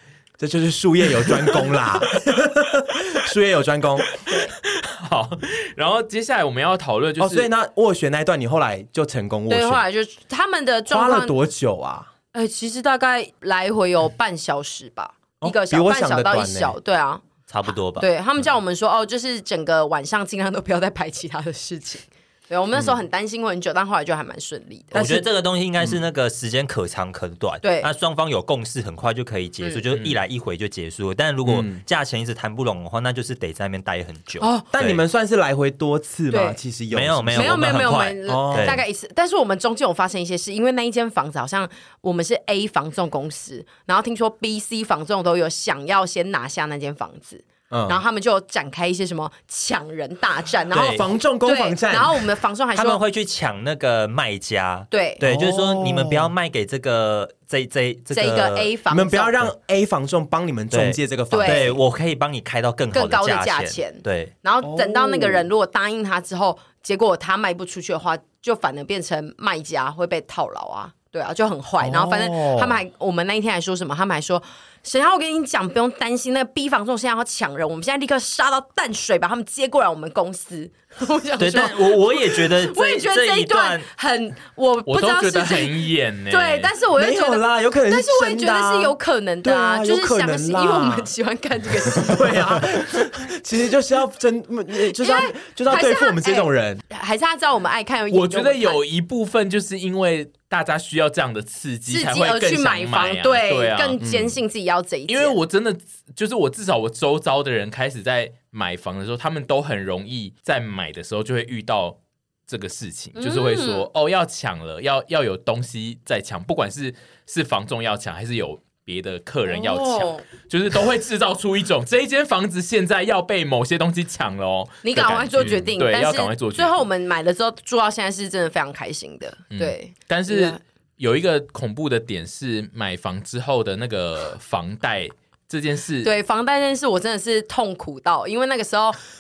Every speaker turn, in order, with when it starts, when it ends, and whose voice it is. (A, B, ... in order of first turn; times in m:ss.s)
0:00.4-0:04.1 A
0:04.3-0:04.5 B
0:04.6-0:07.5 C
0:07.2-0:09.8 A
0:09.5-0:11.4 B
0:10.9-0:12.1 A
0:12.3-0:25.2 B
0:15.4-0:16.8 A
0:17.5-0:18.1 D
0:24.9-0:25.3 A
0:24.9-0:35.0 D
0:27.6-0:27.9 B
0:31.4-0:31.8 A
0:34.4-0:34.7 B
0:34.7-0:38.8 A
0:36.3-0:36.6 B
0:36.9-0:38.8 D
0:37.3-0:53.0 B
0:47.7-0:48.0 A
0:50.7-0:51.0 D
0:50.8-0:52.2 A
0:52.7-0:58.7 D
0:54.9-0:55.2 B
0:55.2-0:56.3 A
0:58.1-0:59.5 B
0:58.9-1:01.8 A
1:00.7-1:04.3 D
1:01.3-1:01.8 B
1:02.9-1:32.7 B
1:04.6-1:05.5 A
1:11.8-1:12.8 A
1:21.4-1:23.9 D
1:24.9-1:26.7 C
1:27.0-1:31.1 A
1:31.9-1:36.8 A
1:35.0-1:38.8 B
1:38.1-1:44.0 C
1:41.9-1:45.4 B
1:44.0-1:44.4 A
1:45.1-2:06.9 C
1:53.2-1:53.9 B
1:59.5-2:00.2 B
2:04.8-2:10.6 B
2:09.5-2:16.1 C
2:16.0-2:19.0 B